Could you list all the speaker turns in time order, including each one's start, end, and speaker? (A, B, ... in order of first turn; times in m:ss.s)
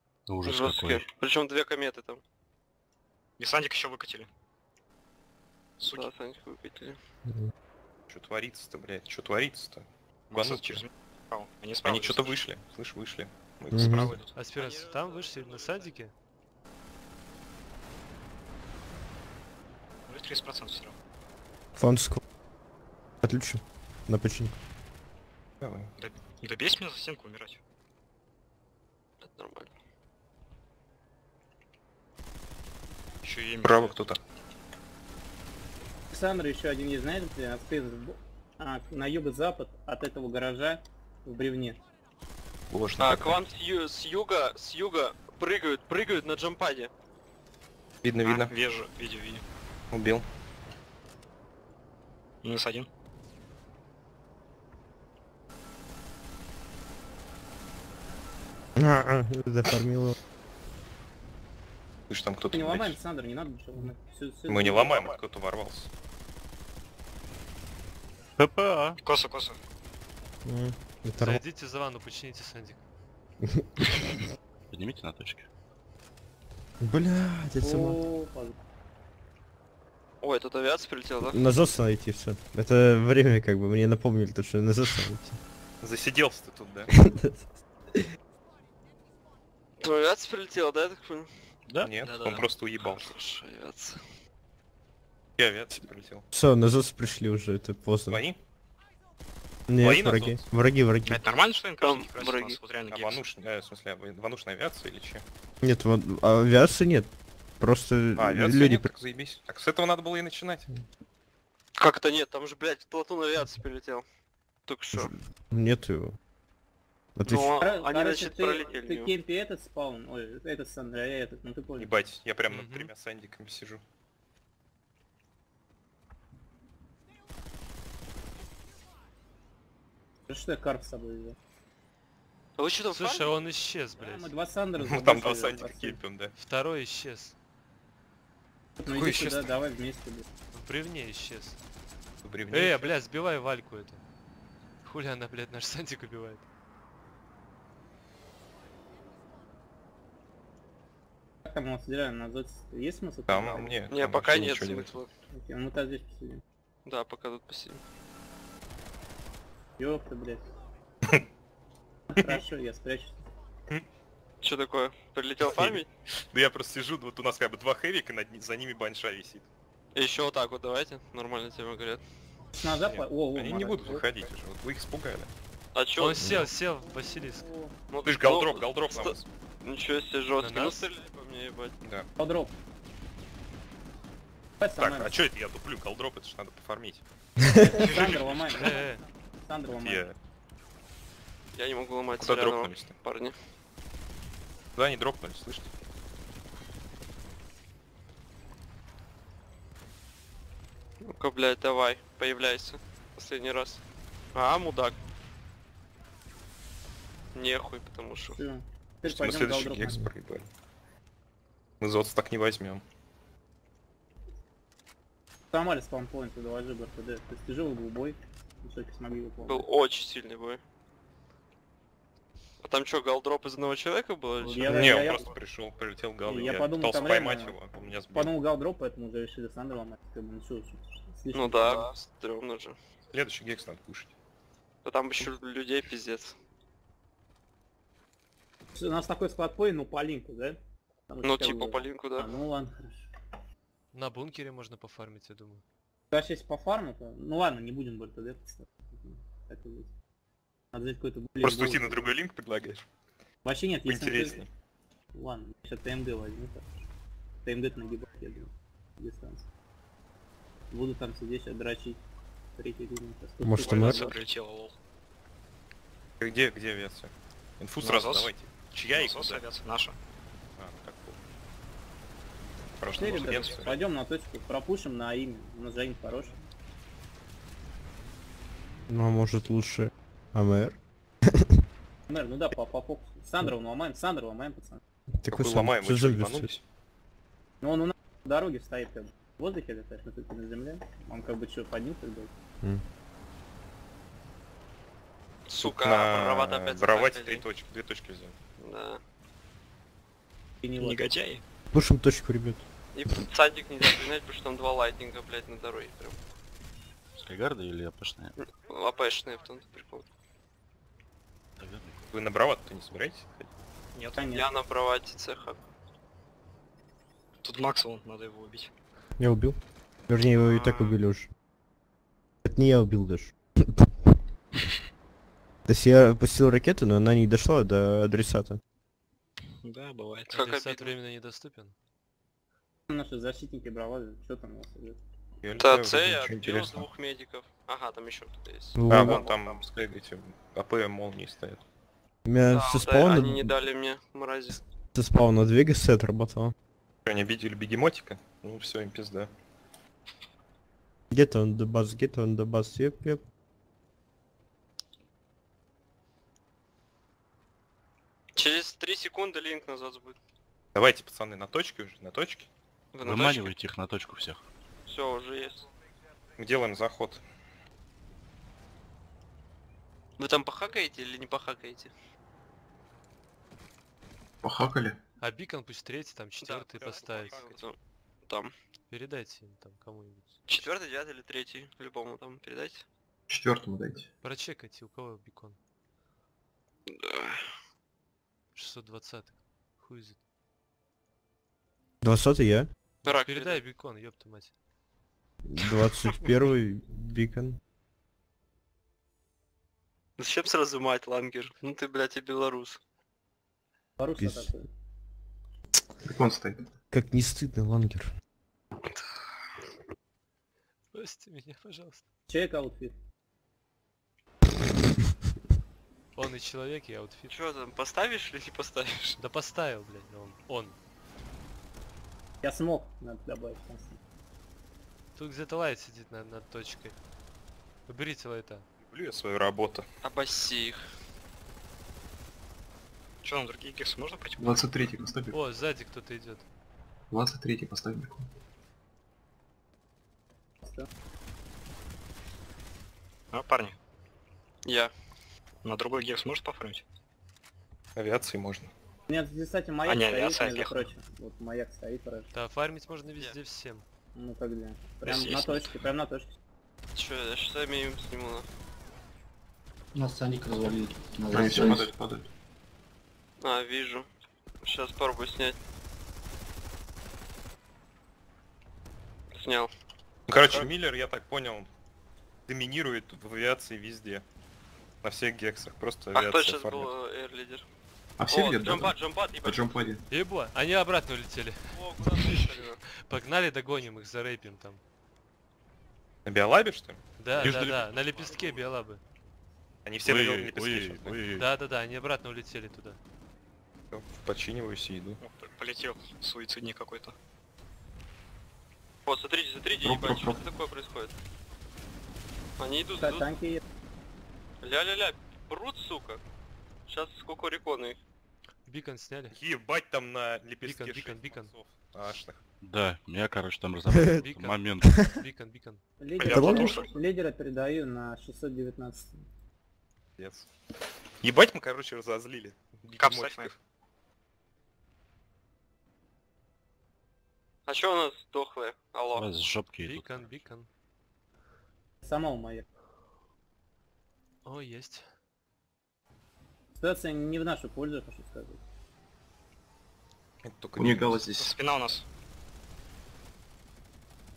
0:00.3-0:01.1 A
0:00.4-0:02.2 B
0:03.4-0:04.3 C
0:05.8-0:06.1 C
0:05.8-0:07.0 B
0:07.3-0:07.5 D
0:08.1-0:10.8 E
0:10.3-0:12.4 C
0:11.8-0:14.2 E
0:13.7-0:14.2 D
0:13.7-0:14.4 C
0:14.4-0:16.1 F
0:14.4-0:16.0 B
0:20.1-0:21.0 C
0:21.8-0:22.2 D
0:23.2-0:24.6 D
0:25.6-0:25.9 E
0:26.0-0:27.6 C
0:29.2-0:29.7 B
0:33.2-0:34.0 C
0:33.6-0:34.2 E
0:36.1-0:41.8 G
0:42.7-0:43.5 E
0:43.0-0:46.9 B
0:48.0-0:48.5 E
0:48.2-0:49.4 C
0:49.9-0:50.3 E
0:52.4-0:52.9 C
0:58.8-1:00.2 D
1:02.1-1:03.0 E
1:02.5-1:05.2 G
1:04.5-1:05.9 E
1:08.4-1:09.0 A
1:09.0-1:09.6 C
1:10.4-1:11.4 D
1:11.2-1:12.8 F
1:13.4-1:13.7 D
1:14.7-1:15.5 A
1:16.8-1:18.0 D
1:17.6-1:18.5 G
1:20.2-1:21.5 B
1:21.2-1:25.4 D
1:25.8-1:26.9 E
1:26.9-1:28.0 D
1:29.8-1:31.3 B
1:31.8-1:33.1 E
1:31.9-1:34.0 B
1:35.4-1:36.3 E
1:36.3-1:38.2 D
1:38.1-1:38.4 E
1:39.7-1:41.2 D
1:39.8-1:40.5 E
1:41.0-1:43.2 C
1:41.8-1:42.6 B
1:42.9-1:45.2 E
1:45.6-1:48.9 D
1:48.2-1:50.7 E
1:51.8-1:54.1 B
1:54.7-1:55.1 B
1:54.9-1:56.2 D
1:57.2-1:57.5 D
1:57.2-1:59.1 B
1:57.6-2:01.9 G
2:01.8-2:03.8 E
2:02.5-2:02.9 F
2:10.3-2:11.4 G
2:12.6-2:13.4 B
2:12.9-2:14.3 F
2:14.0-2:16.0 G
2:14.8-2:16.4 E
2:16.4-2:17.4 F
2:18.8-2:20.2 G
2:18.9-2:19.5 E
2:20.5-2:21.6 F
2:22.2-2:23.0 E
2:22.5-2:24.0 F
2:24.8-2:26.4 F
2:31.4-2:33.8 G
2:33.3-2:35.0 E
2:33.9-2:35.1 B
2:35.3-2:36.4 G
2:36.9-2:37.8 B
2:39.8-2:40.5 G
2:42.1-2:43.2 G
2:44.4-2:45.9 B
2:45.4-2:49.5 E
2:50.0-2:52.0 B
2:52.5-2:54.1 G
2:52.8-2:55.3 E
2:55.8-2:56.5 B
2:56.0-2:57.5 F
2:56.8-2:57.8 G
2:57.9-3:01.8 B
2:58.0-2:59.2 E
3:00.4-3:00.9 F
3:02.2-3:02.5 G
3:04.6-3:05.2 G
3:04.8-3:07.0 E
3:07.4-3:07.8 D
3:07.6-3:10.1 G
3:07.8-3:08.4 C
3:08.6-3:09.0 F
3:09.8-3:10.2 E
3:11.5-3:13.4 B
3:12.1-3:13.0 E
3:14.8-3:15.7 E
3:21.0-3:23.8 B
3:24.3-3:25.0 B
3:27.3-3:28.4 B
3:28.3-3:30.0 G
3:29.0-3:30.5 E
3:31.8-3:32.8 E
3:35.5-3:39.7 G
3:39.4-3:40.6 B
3:42.6-3:45.2 B
3:44.4-3:45.3 G
3:44.7-3:48.3 E
3:46.2-3:47.6 G
3:48.1-3:51.9 G
3:51.3-3:52.8 B
3:53.1-3:54.1 E
3:54.8-3:56.4 B
3:58.8-4:03.1 G
4:01.2-4:02.3 B
4:03.9-4:05.6 F
4:06.1-4:09.9 G
4:10.7-4:12.0 G
4:11.4-4:12.9 E
4:13.4-4:14.4 G
4:13.9-4:14.5 E
4:15.1-4:16.8 G
4:17.4-4:19.5 G
4:20.7-4:22.0 G
4:22.6-4:24.1 G
4:23.4-4:24.0 D
4:23.6-4:24.8 C
4:26.2-4:29.5 E
4:27.8-4:28.3 C
4:28.9-4:30.0 C
4:30.6-4:31.2 E
4:32.8-4:33.8 E
4:32.8-4:33.6 C
4:32.9-4:36.4 G
4:38.9-4:41.6 D
4:42.1-4:44.8 G
4:45.2-4:46.5 D
4:45.3-4:46.6 E
4:47.6-4:52.3 G
4:55.5-4:57.5 B
4:55.6-4:58.4 E
4:58.6-4:59.0 B
5:00.6-5:01.1 G
5:00.8-5:01.4 C
5:01.7-5:02.6 D
5:02.9-5:06.2 B
5:07.2-5:08.4 A
5:08.4-5:10.0 B
5:11.6-5:12.1 A
5:12.1-5:13.5 E
5:13.9-5:14.2 C
5:14.2-5:14.5 G
5:14.3-5:15.6 B
5:17.4-5:18.7 C
5:19.2-5:19.6 D
5:20.1-5:21.3 D
5:20.3-5:21.0 C
5:22.4-5:24.2 D
5:25.6-5:28.6 D
5:29.6-5:30.3 C
5:30.3-5:31.8 F
5:30.3-5:31.0 B
5:32.9-5:35.0 G
5:35.4-5:36.9 E
5:35.6-5:39.4 B
5:38.8-5:39.2 D
5:38.9-5:41.6 E
5:42.3-5:43.6 D
5:42.5-5:44.6 B
5:44.9-5:46.5 D
5:47.1-5:49.3 E
5:51.1-5:53.2 D
5:58.4-6:00.2 B
6:00.7-6:02.5 E
6:02.9-6:03.6 B
6:03.0-6:04.4 A
6:04.9-6:05.7 B
6:06.4-6:07.2 E
6:10.2-6:11.9 B
6:14.4-6:15.0 H
6:15.2-6:17.4 F
6:16.4-6:18.5 B
6:16.8-6:17.7 E
6:18.9-6:20.4 F
6:20.5-6:22.8 B
6:23.3-6:24.1 H
6:24.2-6:25.6 F
6:26.9-6:27.4 B
6:28.6-6:30.2 F
6:32.0-6:32.7 D
6:33.0-6:33.6 B
6:33.2-6:34.5 F
6:35.4-6:37.6 D
6:40.2-6:42.8 B
6:44.0-6:44.7 G
6:44.2-6:44.5 D
6:46.0-6:46.7 H
6:46.9-6:48.1 D
6:50.9-6:52.0 F
6:52.3-6:53.0 G
6:56.2-6:57.3 F
6:57.3-6:59.2 B
6:59.2-7:00.8 F
7:02.4-7:04.0 G
7:05.2-7:07.0 F
7:07.9-7:08.6 F
7:08.8-7:09.8 E
7:10.0-7:10.8 B
7:13.2-7:14.7 C
7:14.4-7:15.4 H
7:15.3-7:16.4 F
7:17.1-7:18.3 H
7:23.3-7:23.8 C
7:24.7-7:24.9 B
7:25.6-7:26.8 C
7:28.0-7:28.7 E
7:29.1-7:32.3 G
7:29.9-7:30.9 C
7:32.3-7:33.8 F
7:34.2-7:36.3 G
7:35.0-7:35.7 C
7:36.9-7:38.5 B
7:40.0-7:41.9 I
7:41.3-7:42.3 H
7:43.4-7:44.1 B
7:44.6-7:45.6 B
7:49.3-7:49.7 B
7:50.3-7:51.7 E
7:52.5-7:54.2 E
7:55.0-7:56.9 E
7:56.1-7:57.6 B
7:58.2-8:00.0 H
7:58.3-7:59.8 B
8:00.1-8:01.8 F
8:01.7-8:02.8 B
8:02.9-8:04.8 F
8:06.2-8:07.8 E
8:07.2-8:09.0 F
8:07.4-8:08.6 C
8:09.8-8:11.2 E
8:10.0-8:11.5 A
8:11.3-8:13.0 F
8:13.9-8:15.2 E
8:15.2-8:17.2 C
8:19.1-8:21.2 B
8:19.8-8:20.4 H
8:22.6-8:23.3 B
8:23.0-8:23.6 G
8:24.6-8:26.2 B
8:26.9-8:28.0 B
8:28.7-8:29.4 F
8:29.3-8:32.4 E
8:30.6-8:31.5 F
8:32.6-8:35.1 A
8:34.1-8:35.8 F
8:36.0-8:39.2 G
8:36.2-8:37.0 C
8:36.3-8:36.8 D
8:40.2-8:40.5 E
8:41.2-8:43.6 E
8:43.0-8:43.5 C
8:47.7-8:49.3 B
8:49.2-8:50.4 A
8:49.8-8:50.7 F
8:52.0-8:52.6 G
8:54.4-8:55.1 F
8:56.8-8:58.6 G
9:00.4-9:01.2 E
9:00.8-9:01.6 H
9:01.4-9:02.1 C